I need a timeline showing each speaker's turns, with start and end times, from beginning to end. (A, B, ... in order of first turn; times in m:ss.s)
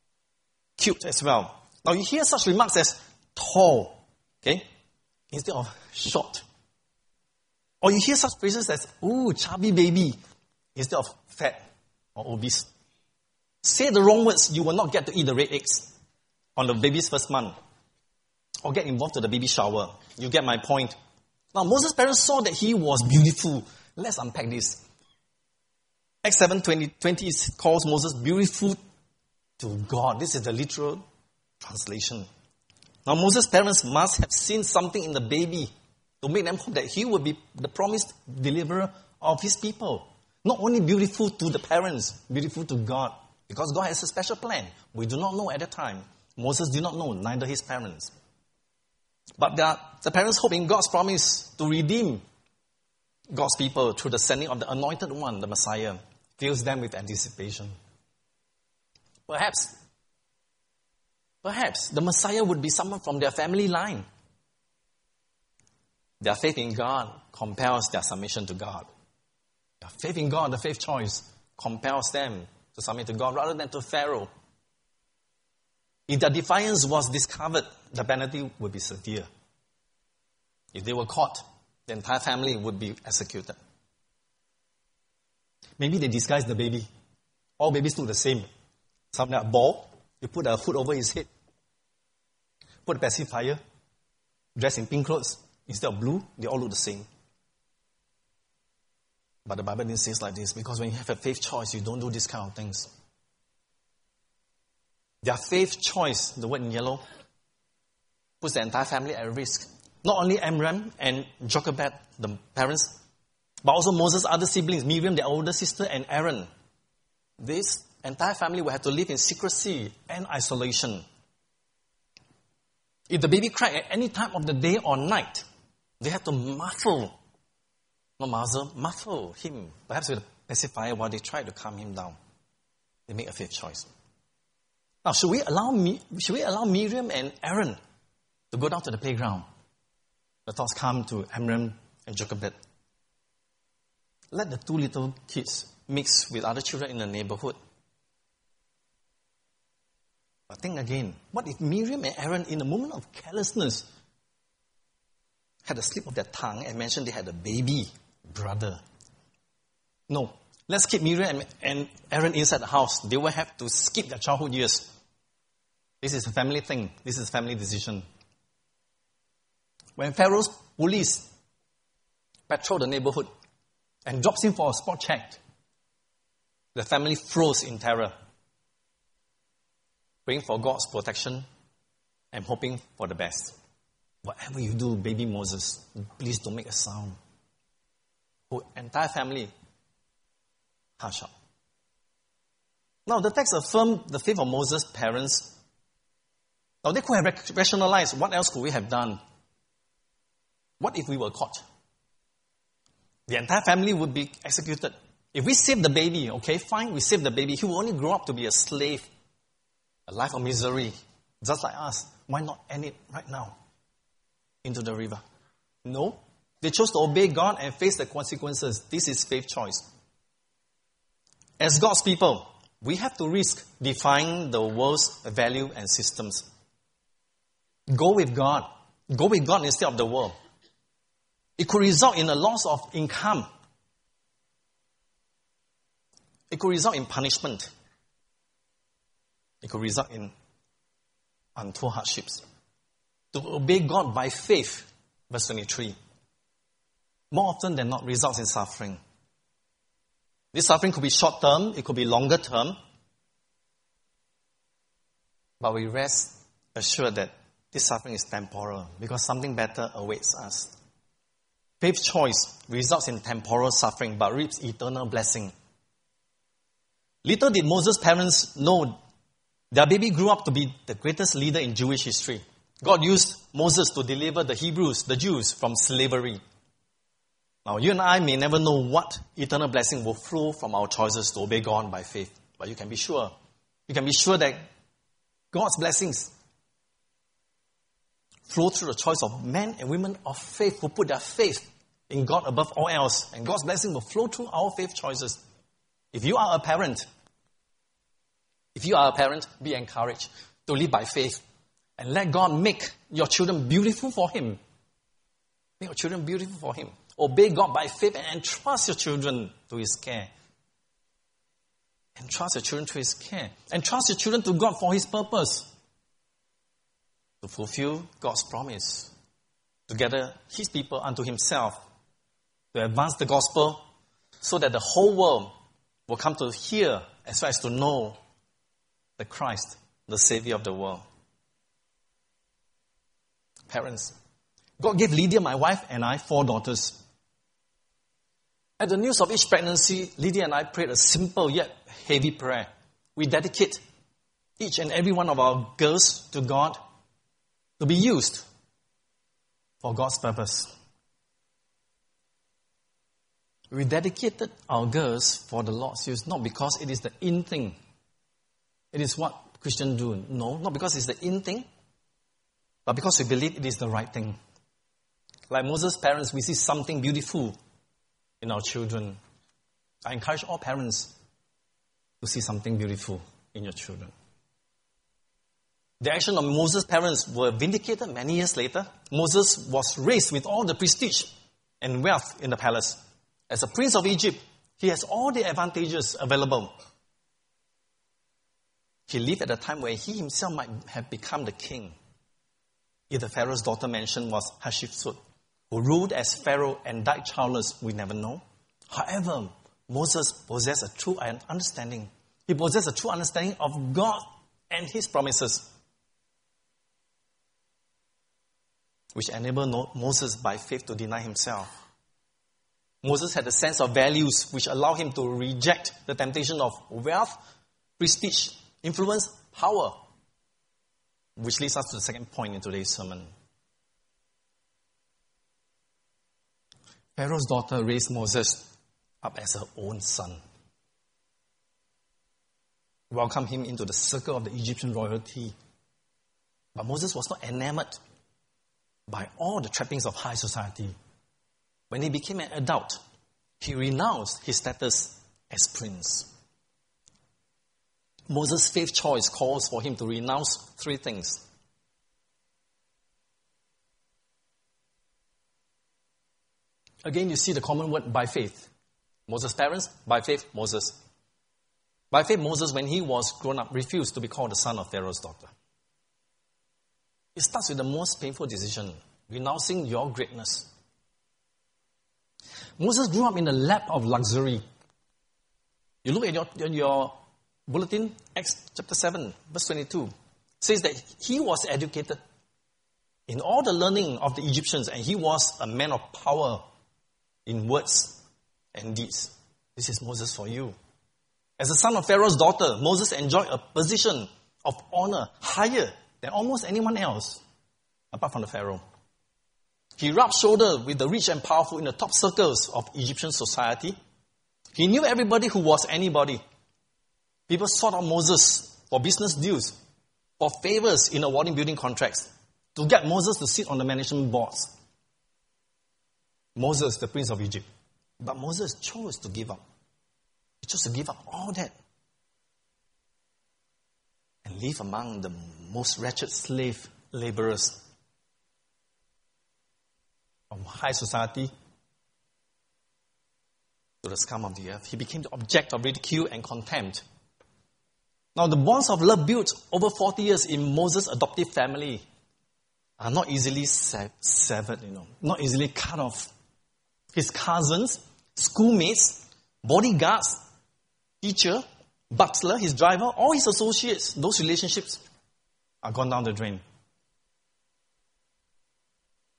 0:00.8-0:04.7 A
0:05.3-0:06.4 A
0:07.8-0:10.2 A
0:10.8-0:11.6 A
0:12.2-0:12.7 A
0:13.6-0:15.9 A
0:16.6-0:17.6 A
0:18.6-0:21.0 A
0:21.5-0:24.8 A
0:26.2-0:28.8 A
0:29.6-0:31.0 A
0:31.6-0:32.3 A
0:33.1-0:48.1 A
0:49.4-0:52.2 A
0:53.3-0:57.8 A
0:59.3-0:59.7 A
1:01.4-1:04.1 A
1:06.2-1:08.9 A
1:09.8-1:14.3 A
1:16.1-1:19.3 A
1:20.7-1:23.6 A
1:25.8-1:26.9 A
1:27.6-1:28.5 A
1:29.1-1:31.3 A
1:32.9-1:33.6 A
1:34.6-1:37.1 A
1:39.5-1:42.9 A
1:45.2-1:47.0 A
1:48.4-1:53.0 A
1:53.6-1:56.5 A
1:57.4-2:01.0 A
2:03.1-2:05.4 A
2:06.0-2:07.1 A
2:08.2-2:12.2 A
2:13.1-2:13.9 A
2:15.0-2:17.8 A
2:18.5-2:19.5 A
2:20.5-2:22.6 A
2:24.3-2:27.6 A
2:30.5-2:33.9 A
2:35.6-2:38.8 A
2:40.1-2:44.9 A
2:46.0-2:48.0 A
2:50.0-2:51.3 A
2:52.5-2:53.3 A
2:54.1-2:55.4 A
2:56.8-2:58.1 A
3:00.3-3:01.4 A
3:02.3-3:03.6 A
3:04.2-3:07.2 A
3:08.5-3:09.5 A
3:11.0-3:11.3 A
3:13.1-3:15.5 A
3:16.8-3:19.2 A
3:20.8-3:21.6 A
3:23.3-3:29.1 A
3:30.1-3:33.6 A
3:34.6-3:35.2 A
3:35.8-3:39.8 A
3:41.6-3:46.5 A
3:47.9-3:50.3 A
3:51.6-3:53.5 A
3:56.5-3:57.7 A
3:59.6-4:00.3 A
4:01.6-4:02.4 A
4:03.3-4:06.0 A
4:07.3-4:09.0 A
4:10.5-4:12.8 A
4:15.6-4:20.7 A
4:21.8-4:25.5 A
4:27.2-4:29.0 A
4:29.7-4:36.4 A
4:37.6-4:43.3 A
4:43.9-4:44.7 A
4:45.5-4:46.3 A
4:48.5-4:55.4 A
4:56.1-4:57.0 A
4:58.8-5:01.4 A
5:02.0-5:04.6 A
5:05.8-5:10.3 A
5:12.2-5:15.7 A
5:17.4-5:19.1 A
5:19.9-5:21.8 A
5:22.7-5:23.8 A
5:24.4-5:25.5 A
5:26.1-5:28.2 A
5:29.2-5:31.0 A
5:33.7-5:34.1 A
5:34.8-5:37.0 A
5:38.8-5:43.8 A
5:44.6-5:46.8 A
5:47.8-5:48.5 A
5:49.8-5:50.7 A
5:53.7-5:57.8 A
5:58.9-6:01.7 A
6:02.9-6:04.4 A
6:05.5-6:07.6 A
6:08.4-6:09.2 A
6:10.0-6:11.1 A
6:12.2-6:14.1 A
6:16.0-6:21.3 A
6:21.8-6:23.0 A
6:23.5-6:26.7 A
6:29.1-6:32.0 A
6:33.1-6:35.2 A
6:35.7-6:45.7 A
6:49.1-6:51.7 A
6:53.0-6:57.3 A
6:58.0-7:00.0 A
7:01.4-7:03.3 A
7:07.2-7:08.7 A
7:09.2-7:10.4 A
7:13.1-7:15.6 A
7:16.8-7:18.0 A
7:19.1-7:21.0 A
7:21.9-7:23.0 A
7:23.6-7:26.3 A
7:28.3-7:31.4 A
7:37.0-7:38.7 A
7:39.3-7:41.0 A
7:42.1-7:45.5 A
7:47.4-7:50.7 A
7:52.8-7:54.6 A
7:56.0-7:57.1 A
7:57.7-8:02.2 A
8:03.3-8:06.6 A
8:07.5-8:08.2 A
8:08.7-8:10.8 A
8:11.6-8:17.4 A
8:18.1-8:18.8 A
8:20.0-8:24.0 A
8:24.8-8:26.4 A
8:27.5-8:29.8 A
8:30.4-8:34.7 A
8:36.6-8:37.6 A
8:38.2-8:39.6 A
8:40.6-8:41.7 A
8:44.4-8:47.8 A
8:50.5-8:51.5 A
8:54.0-8:57.0 A
8:58.4-9:02.0 A
9:03.0-9:06.3 A
9:07.1-9:10.4 A
9:11.2-9:15.0 A
9:15.8-9:16.6 A